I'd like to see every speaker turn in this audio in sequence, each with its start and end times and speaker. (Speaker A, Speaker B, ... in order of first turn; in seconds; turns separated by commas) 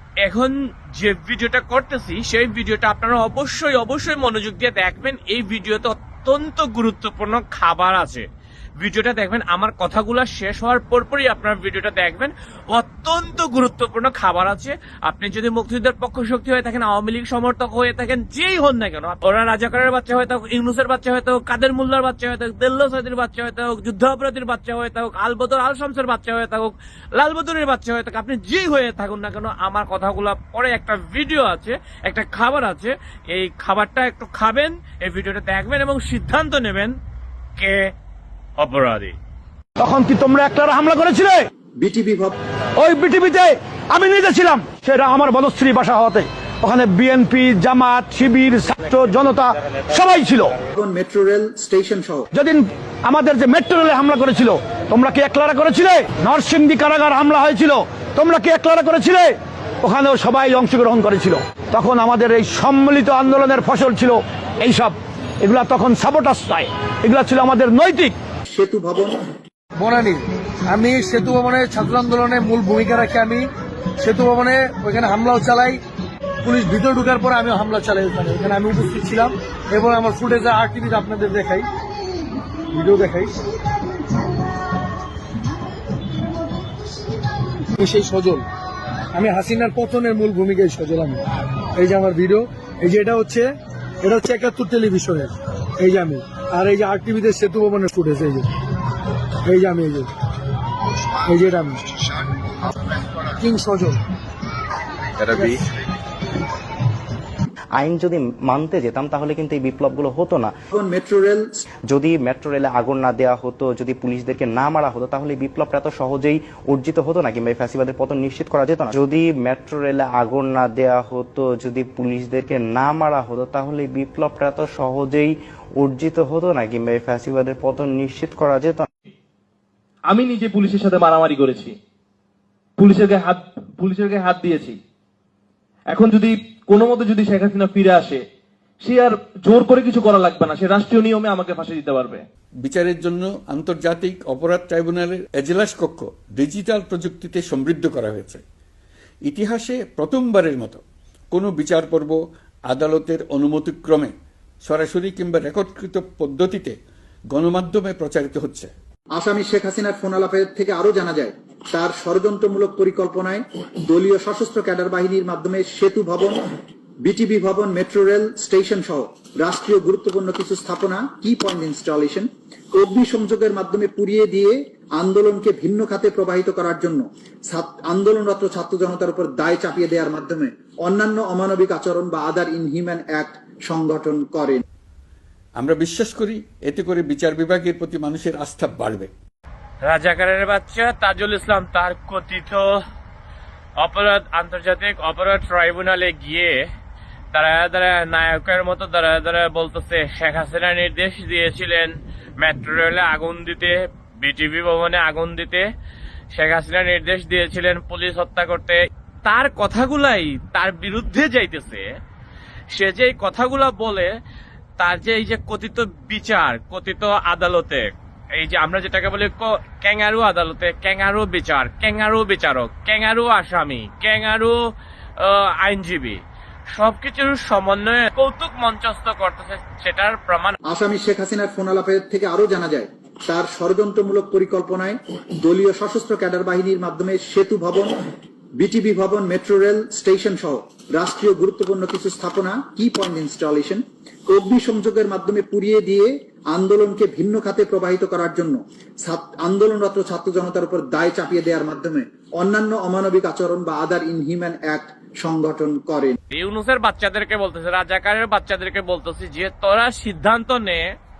Speaker A: 0.2-8.3, Speaker A: 8.8-37.0, Speaker A: 37.6-37.9, Speaker A: 38.6-39.1, Speaker B: 39.8-41.5, Speaker C: 41.8-42.4, Speaker B: 42.8-50.6, Speaker C: 50.7-52.3, Speaker B: 52.3-68.2, Speaker C: 68.5-69.2, Speaker D: 69.8-73.5, Speaker D: 74.0-75.8, Speaker D: 76.4-81.7, Speaker D: 82.7-83.3, Speaker D: 87.8-88.4, Speaker D: 89.1-91.2, Speaker D: 91.8-98.5, Speaker D: 99.5-100.1, Speaker D: 101.2-101.9, Speaker D: 103.4-104.0, Speaker E: 107.8-110.5, Speaker C: 110.7-111.5, Speaker E: 111.9-128.9, Speaker F: 130.1-131.7, Speaker F: 132.8-134.8, Speaker F: 135.9-138.2, Speaker F: 138.8-142.2, Speaker G: 142.6-148.4, Speaker G: 149.3-152.2, Speaker G: 152.7-154.1, Speaker G: 154.6-156.8, Speaker G: 157.3-158.7, Speaker C: 159.2-166.4, Speaker C: 167.0-184.6, Speaker G: 185.6-189.1, Speaker A: 189.8-192.8, Speaker A: 193.8-196.6, Speaker A: 197.3-205.7, Speaker A: 206.3-211.9, Speaker A: 212.7-214.1, Speaker A: 214.8-217.9, Speaker A: 218.4-224.6, Speaker A: 225.2-226.2, Speaker A: 226.7-230.6, Speaker C: 230.7-237.9, Speaker C: 238.6-256.2, Speaker A: 256.3-260.9